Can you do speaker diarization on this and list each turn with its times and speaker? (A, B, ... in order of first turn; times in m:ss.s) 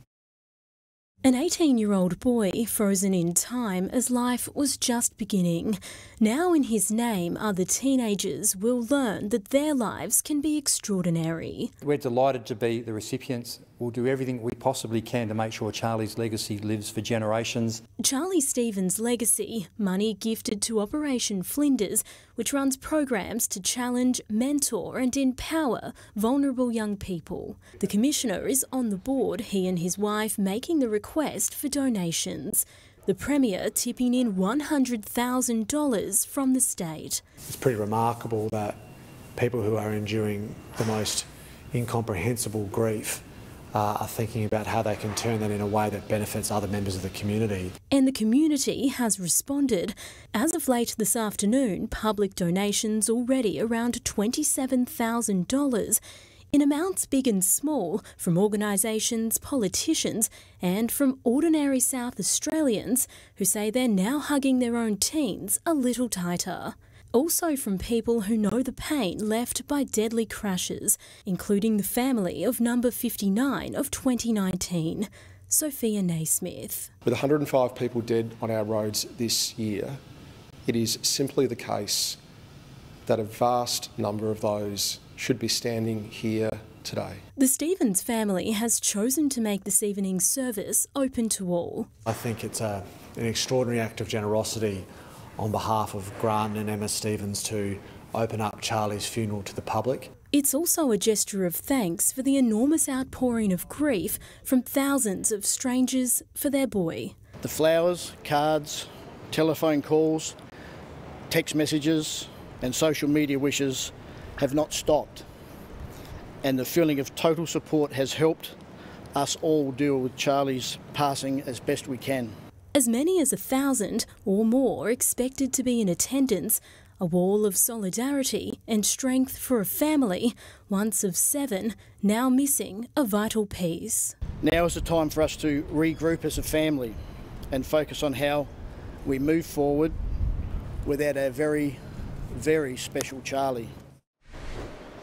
0:01.2-0:11.7 A
0:11.8-0:17.8 B
0:18.0-0:37.2 A
0:37.5-0:38.8 C
0:39.4-0:47.7 C
0:47.9-0:56.0 A
0:56.5-1:16.9 A
1:17.0-1:20.0 D
1:20.7-1:22.2 D
1:23.1-1:27.2 D
1:27.4-1:31.9 A
1:32.1-1:34.9 C
1:35.4-1:40.1 C
1:40.3-1:47.2 A
1:47.4-1:50.4 E
1:51.3-1:55.2 E
1:56.4-1:58.6 E
1:59.2-2:02.3 E
2:02.7-2:14.2 A
2:14.4-2:17.0 E
2:17.5-2:18.5 E
2:19.0-2:20.0 E
2:20.8-2:23.7 E